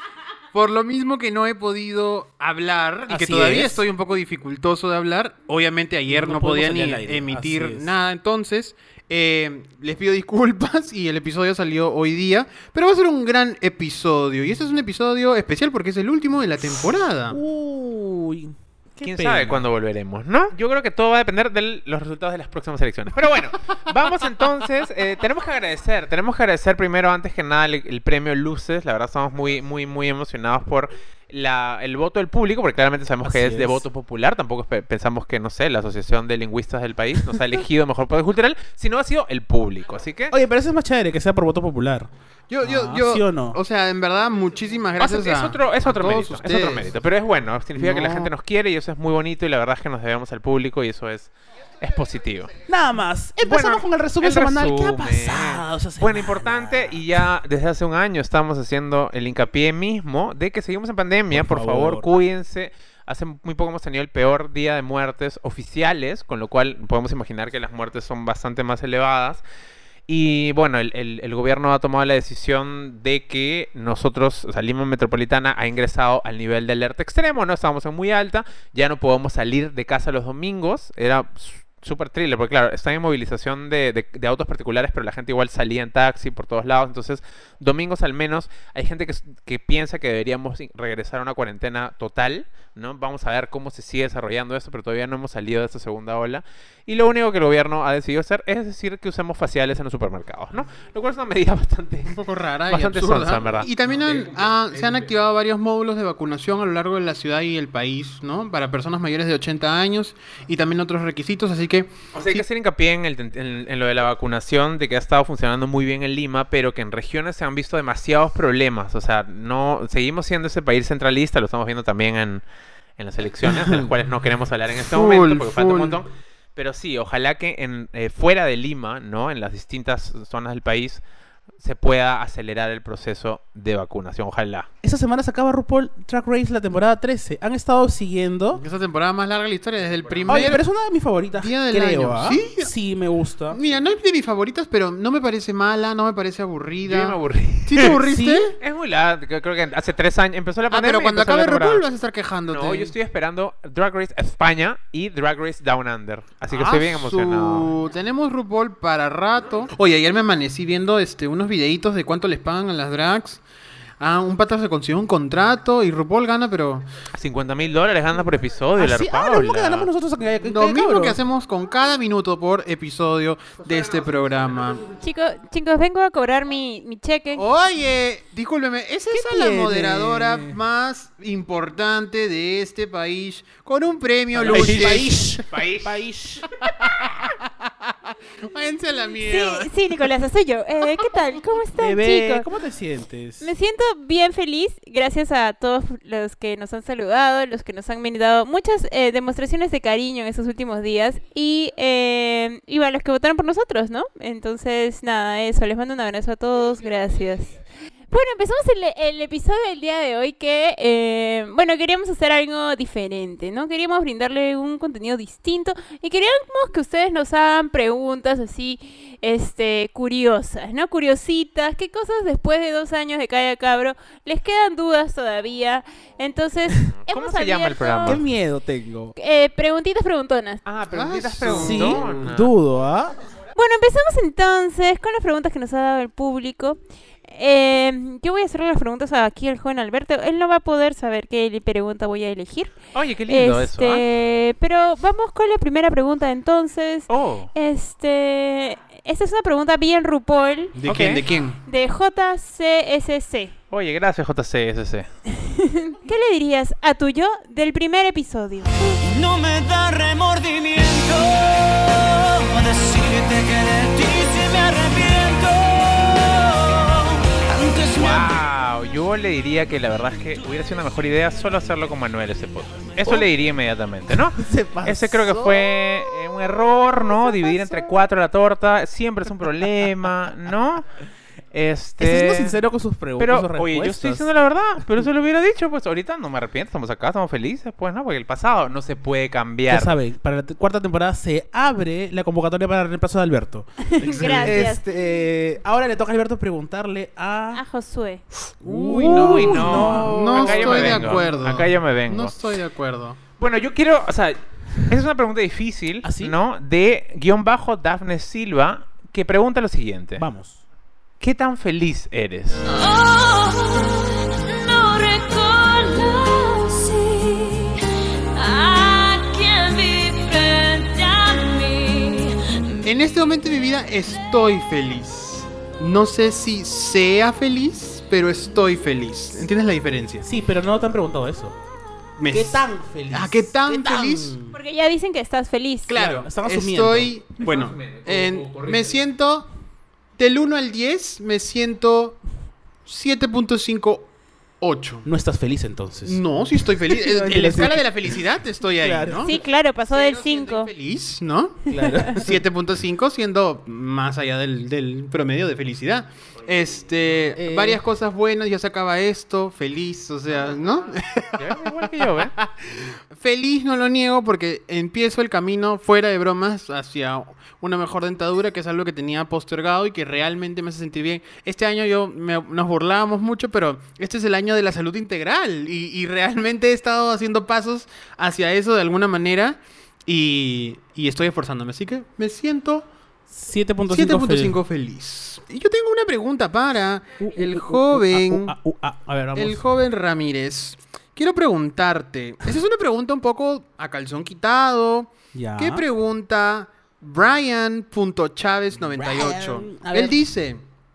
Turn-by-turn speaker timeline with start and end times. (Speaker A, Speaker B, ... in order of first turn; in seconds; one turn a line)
Speaker A: 0.5-17.4
Speaker B: 3.1-3.8
Speaker B: 6.1-7.9
Speaker B: 17.3-19.7
Speaker C: 19.0-40.3
Speaker B: 33.2-33.8
Speaker B: 40.3-42.1
Speaker A: 42.5-46.9
Speaker B: 42.6-43.6
Speaker C: 45.0-52.6
Speaker A: 47.8-48.3
Speaker B: 52.7-57.1
Speaker C: 53.4-69.4
Speaker B: 61.3-62.1
Speaker C: 70.1-105.1
Speaker A: 102.1-112.5
Speaker C: 112.1-122.4
Speaker C: 123.0-131.0
Speaker A: 123.5-123.8
Speaker A: 124.8-126.0
Speaker C: 131.6-134.7
Speaker B: 134.8-138.6
Speaker A: 138.5-140.6
Speaker C: 139.8-140.5
Speaker B: 140.3-143.6
Speaker A: 141.3-142.7
Speaker A: 143.5-148.6
Speaker C: 146.8-148.0
Speaker B: 148.0-148.5
Speaker C: 148.6-151.8
Speaker A: 150.7-152.9
Speaker C: 152.5-157.7
Speaker A: 156.5-163.4
Speaker A: 164.0-166.9
Speaker C: 167.1-169.9
Speaker B: 168.8-171.2
Speaker A: 170.4-174.8
Speaker D: 175.0-177.4
Speaker A: 177.4-185.4
Speaker B: 179.1-180.6
Speaker B: 184.3-186.5
Speaker C: 184.4-186.0
Speaker A: 186.6-187.3
Speaker A: 188.4-189.7
Speaker D: 189.2-192.4
Speaker B: 191.8-193.5
Speaker D: 193.4-207.6
Speaker D: 208.1-228.2
Speaker C: 227.1-228.2
Speaker B: 228.1-229.1
Speaker D: 229.2-230.6
Speaker C: 230.7-232.5
Speaker A: 230.9-232.3
Speaker B: 231.5-233.2
Speaker D: 233.6-250.8
Speaker C: 242.9-244.0
Speaker C: 247.1-247.5
Speaker A: 250.8-251.6
Speaker C: 250.9-251.2
Speaker D: 251.6-253.5
Speaker C: 253.7-255.1
Speaker D: 255.3-258.9
Speaker E: 259.0-268.4
Speaker C: 267.9-280.9
Speaker B: 273.0-273.3
Speaker B: 274.1-278.0
Speaker C: 281.5-282.6
Speaker B: 282.0-284.3
Speaker C: 283.2-289.9
Speaker B: 289.7-293.7
Speaker D: 293.9-294.8
Speaker A: 294.0-294.7
Speaker B: 294.4-297.6
Speaker D: 297.5-298.2
Speaker A: 298.6-303.2
Speaker B: 298.6-301.3
Speaker C: 298.9-302.3
Speaker C: 303.4-310.2
Speaker B: 306.0-306.4
Speaker B: 310.2-310.6
Speaker C: 311.2-312.6
Speaker F: 312.6-317.8
Speaker F: 318.3-322.8
Speaker A: 322.8-330.3
Speaker B: 330.2-331.6
Speaker A: 332.2-334.4
Speaker B: 332.3-334.6
Speaker D: 334.5-335.9
Speaker A: 335.9-339.5
Speaker B: 335.9-337.1
Speaker C: 337.4-339.1
Speaker A: 340.2-342.2
Speaker A: 342.9-345.1
Speaker B: 345.0-349.2
Speaker A: 346.1-382.9
Speaker D: 349.2-350.7
Speaker B: 351.7-352.4
Speaker D: 351.8-352.1
Speaker B: 357.4-357.8
Speaker C: 361.4-362.3
Speaker B: 383.3-384.6
Speaker A: 383.9-388.5
Speaker B: 387.2-389.6
Speaker A: 389.3-400.6
Speaker B: 395.3-395.9
Speaker B: 398.8-400.2